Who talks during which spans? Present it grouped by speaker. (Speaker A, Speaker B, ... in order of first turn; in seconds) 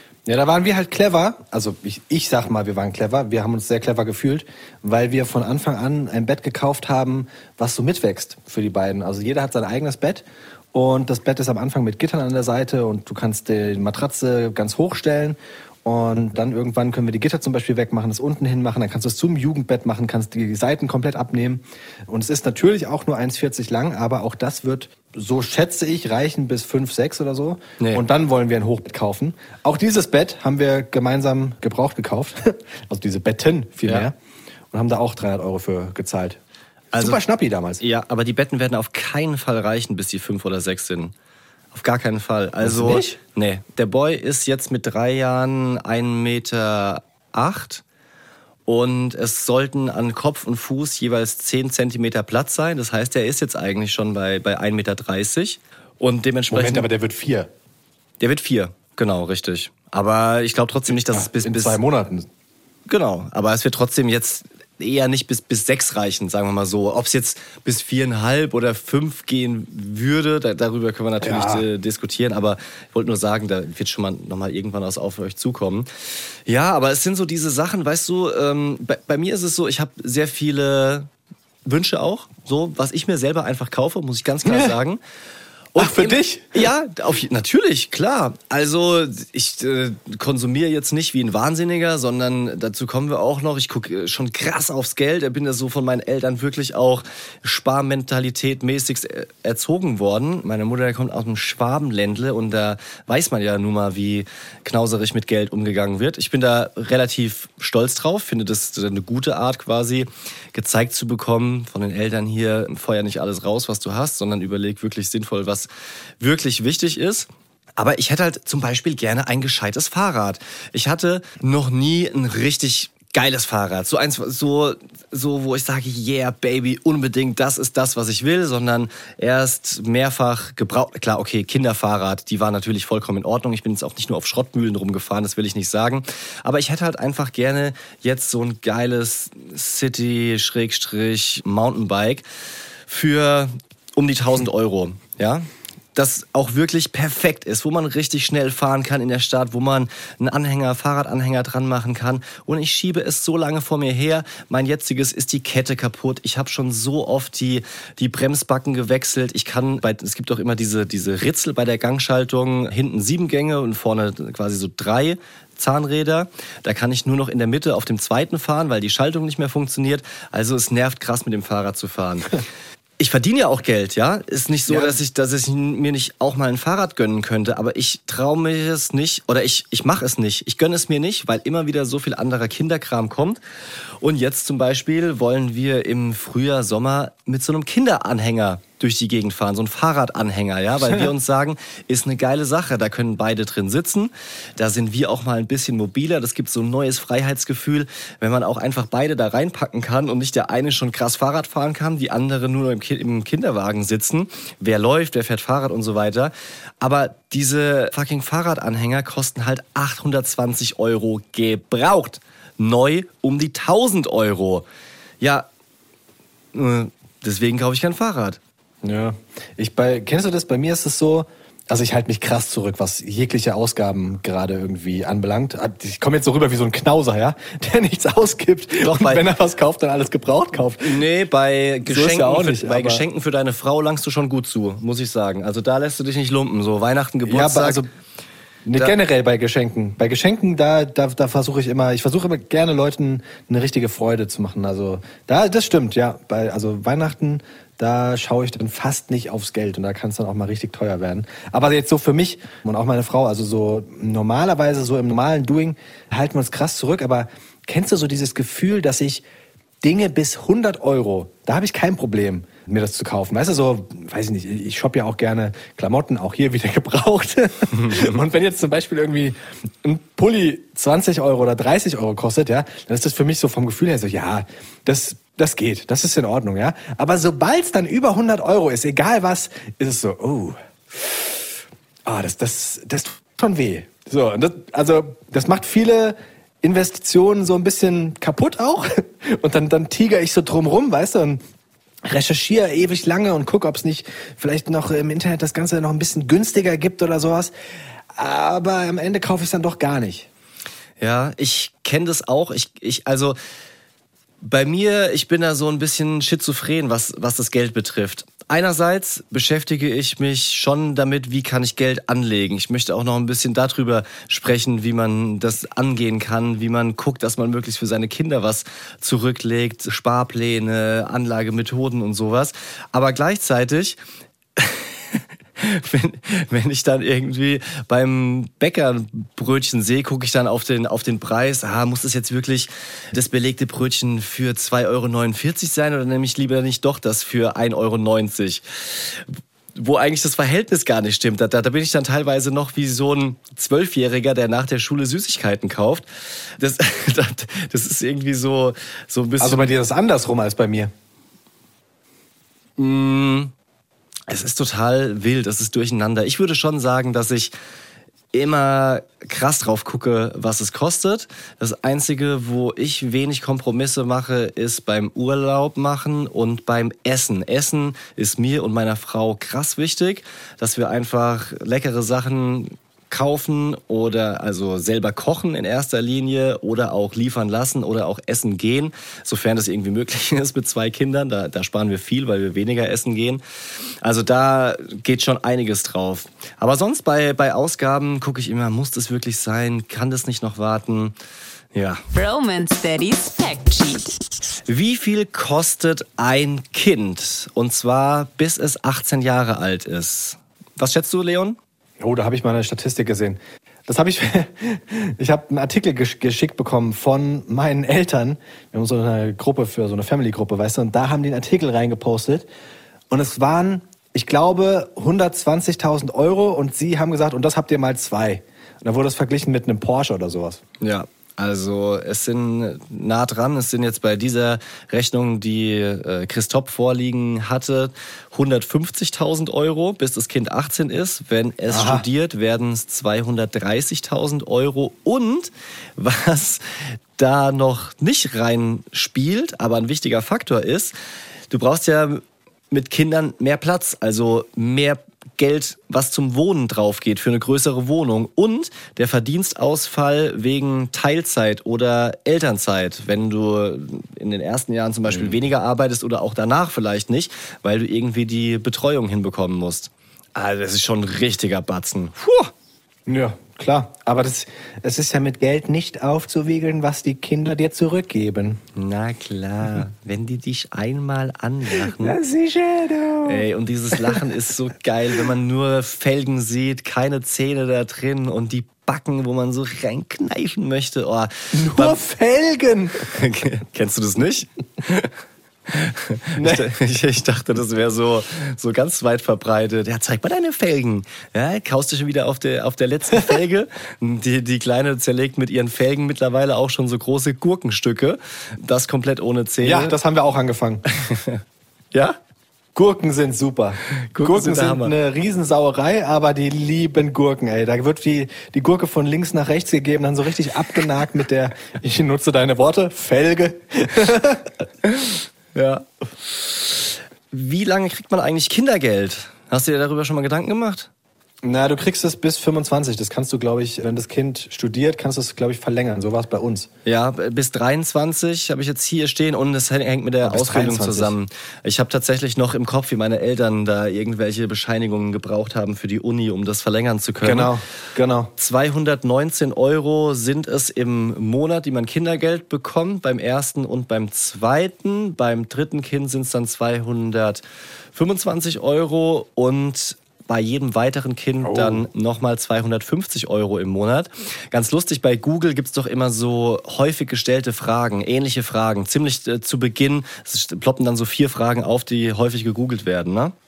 Speaker A: 0.2-34.1, 34.7-36.4, 37.0-37.8, 42.6-43.1, 56.5-57.5, 61.1-62.3, 71.2-71.6, 84.4-84.8, 85.8-86.7, 174.7-174.9, 218.8-231.0, 231.8-233.0, 237.2-237.9, 238.6-259.2, 259.8-281.4, 282.0-291.4, 292.0-297.5, 298.1-300.3, 349.4-350.9, 402.0-412.5, 413.1-420.6, 431.7-432.0, 455.1-455.4, 463.1-468.6, 471.9-474.2, 481.5-483.1, 486.4-486.7, 499.6-500.8, 502.7-514.5, 521.4-526.7, 530.2-531.1, 537.2-538.3, 551.4-551.9
Speaker B: 36.9-37.2, 37.8-41.1, 41.7-47.8, 48.6-56.9, 58.2-61.8, 62.9-75.9, 76.5-81.1, 81.7-85.0, 85.7-115.7, 116.2-142.2, 142.9-172.4, 173.0-183.4, 184.0-214.7, 215.2-215.5, 216.5-218.4, 228.8-229.2, 230.8-237.8, 301.0-303.4, 304.4-324.0, 324.6-349.7, 352.8-353.5, 354.3-357.5, 358.3-383.4, 384.0-391.1, 391.7-392.0, 394.6-401.6, 420.8-440.9, 441.5-462.5, 468.8-472.2, 473.2-482.0, 483.1-485.1, 485.7-500.0, 500.9-501.4, 504.0-504.9, 514.8-520.9, 526.9-537.5, 538.4-547.4, 547.9-563.3
Speaker C: 392.1-394.2